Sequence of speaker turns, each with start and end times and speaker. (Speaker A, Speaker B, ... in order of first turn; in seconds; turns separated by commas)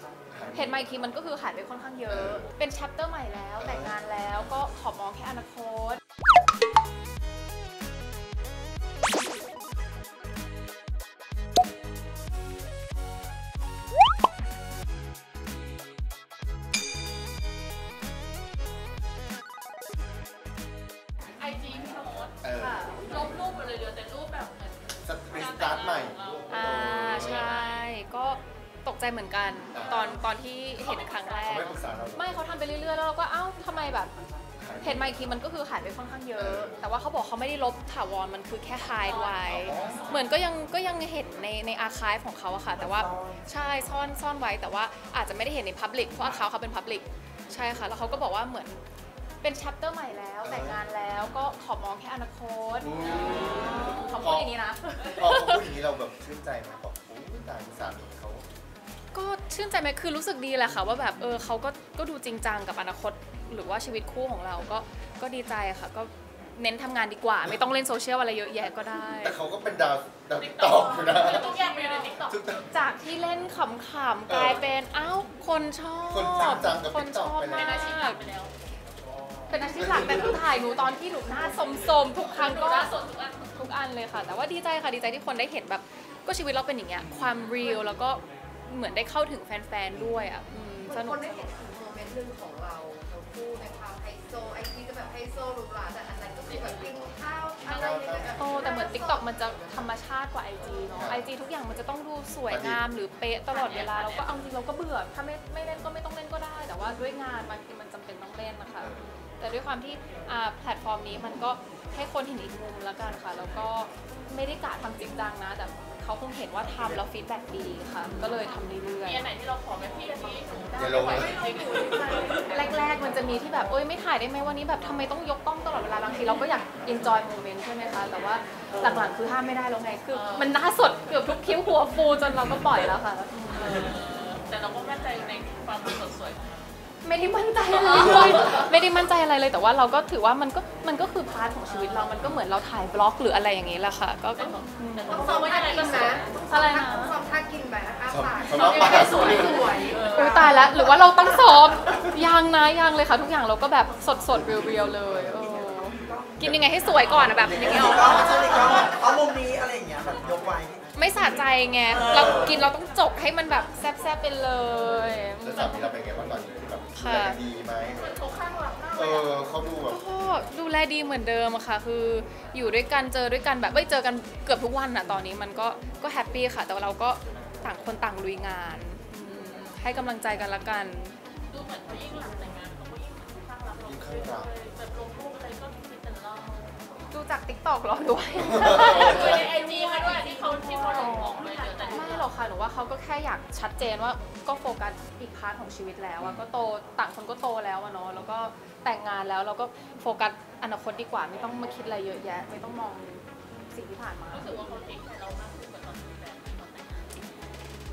Speaker A: 0.3-0.8, Speaker B: 0.5-6.0, Speaker A: 2.1-2.5, Speaker A: 3.6-4.0, Speaker C: 21.4-22.4, Speaker A: 22.4-23.2, Speaker B: 22.6-23.1, Speaker C: 23.1-27.9, Speaker A: 25.0-27.6, Speaker B: 26.5-34.1, Speaker A: 29.7-30.2, Speaker C: 30.8-31.7, Speaker A: 31.5-32.3, Speaker A: 34.6-35.2, Speaker B: 34.8-48.8, Speaker A: 36.4-36.9, Speaker C: 39.0-40.3, Speaker A: 39.5-40.1, Speaker B: 49.4-55.7, Speaker A: 50.4-50.8, Speaker A: 52.8-54.6, Speaker C: 53.3-54.1, Speaker A: 55.2-58.4, Speaker B: 59.1-69.4, Speaker A: 69.2-71.5, Speaker C: 70.4-72.4, Speaker B: 71.2-72.1, Speaker A: 72.3-72.7, Speaker B: 72.7-78.2, Speaker A: 74.3-74.7, Speaker A: 76.1-77.9, Speaker C: 77.5-78.5, Speaker A: 79.2-80.5, Speaker B: 79.5-83.0, Speaker C: 82.3-83.5, Speaker B: 83.5-91.2, Speaker A: 89.9-90.3, Speaker D: 90.9-99.9, Speaker C: 96.4-97.0, Speaker C: 97.7-98.3, Speaker A: 97.7-98.7, Speaker B: 98.3-119.2, Speaker A: 101.0-101.3, Speaker A: 102.5-102.8, Speaker C: 103.5-104.5, Speaker A: 108.8-109.1, Speaker C: 119.0-122.7, Speaker A: 120.7-121.4, Speaker B: 121.0-121.3, Speaker D: 121.1-122.7, Speaker B: 122.0-133.7, Speaker C: 130.1-130.6, Speaker C: 133.5-136.6, Speaker B: 137.0-147.2, Speaker C: 137.7-138.7, Speaker C: 141.7-142.3, Speaker C: 144.3-146.3, Speaker D: 145.1-151.2, Speaker A: 148.1-149.8, Speaker C: 148.5-150.7, Speaker B: 150.0-159.0, Speaker A: 156.4-158.2, Speaker E: 157.2-160.8, Speaker B: 160.9-165.9, Speaker E: 161.9-162.4, Speaker A: 165.4-168.1, Speaker B: 166.9-167.4, Speaker C: 167.9-169.3, Speaker A: 168.9-170.0, Speaker B: 169.8-181.2, Speaker C: 181.5-186.8, Speaker A: 183.8-184.5, Speaker B: 187.1-204.6, Speaker A: 188.4-189.5, Speaker C: 188.6-192.3, Speaker D: 190.9-192.2, Speaker C: 204.3-207.3